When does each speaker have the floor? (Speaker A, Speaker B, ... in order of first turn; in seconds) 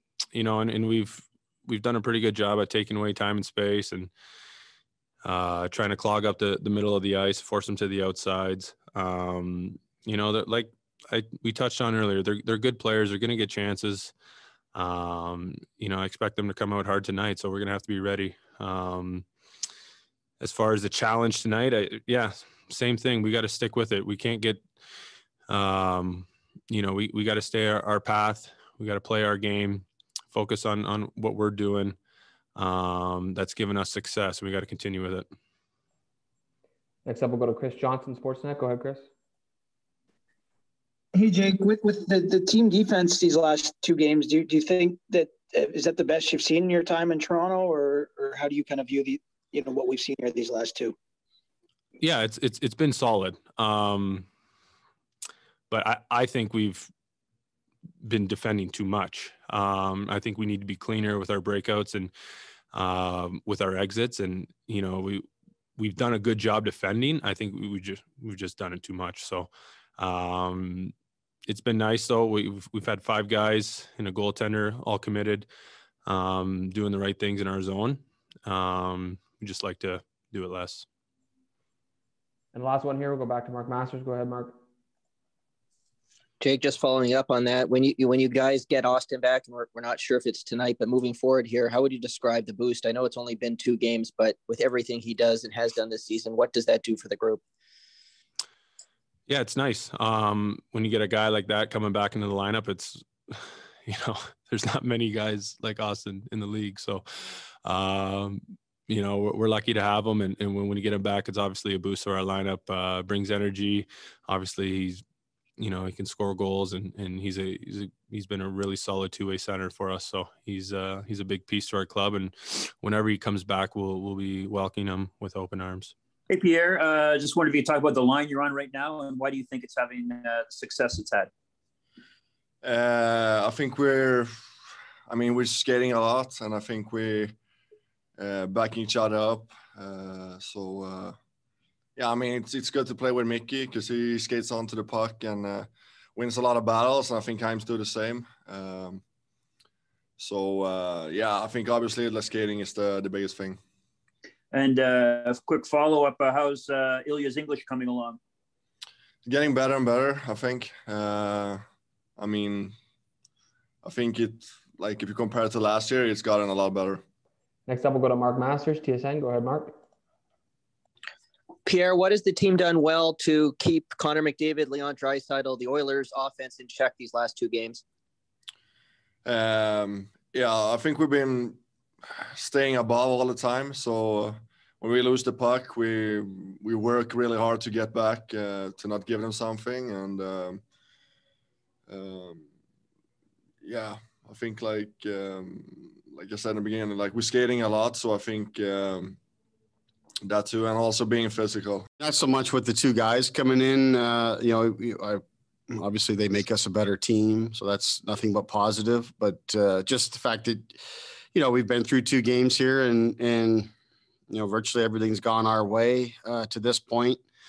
Speaker A: 0.3-4.1, 5.2-14.1, 14.7-19.2, 20.4-24.6, 25.5-32.0, 32.5-35.3, 52.0-54.3, 55.7-56.9, 58.0-62.1, 62.7-65.2, 65.8-70.9, 71.5-75.5, 76.0-80.8, 99.3-107.0, 107.6-115.0, 115.6-125.9
Speaker B: 37.0-39.0, 82.5-84.5, 167.7-169.7
Speaker C: 41.2-50.9
Speaker D: 86.4-97.4, 171.7-177.8
Speaker E: 126.3-131.3, 154.5-158.2
Speaker F: 132.6-134.3, 135.1-137.3, 138.2-141.1, 142.0-149.0, 150.2-153.6, 159.2-161.6, 162.2-162.7, 163.8-167.0, 179.2-181.6, 182.4-190.6, 191.9-192.4, 193.6-199.2, 200.2-201.8
Speaker G: 202.0-210.8, 211.3-213.7, 214.3-217.2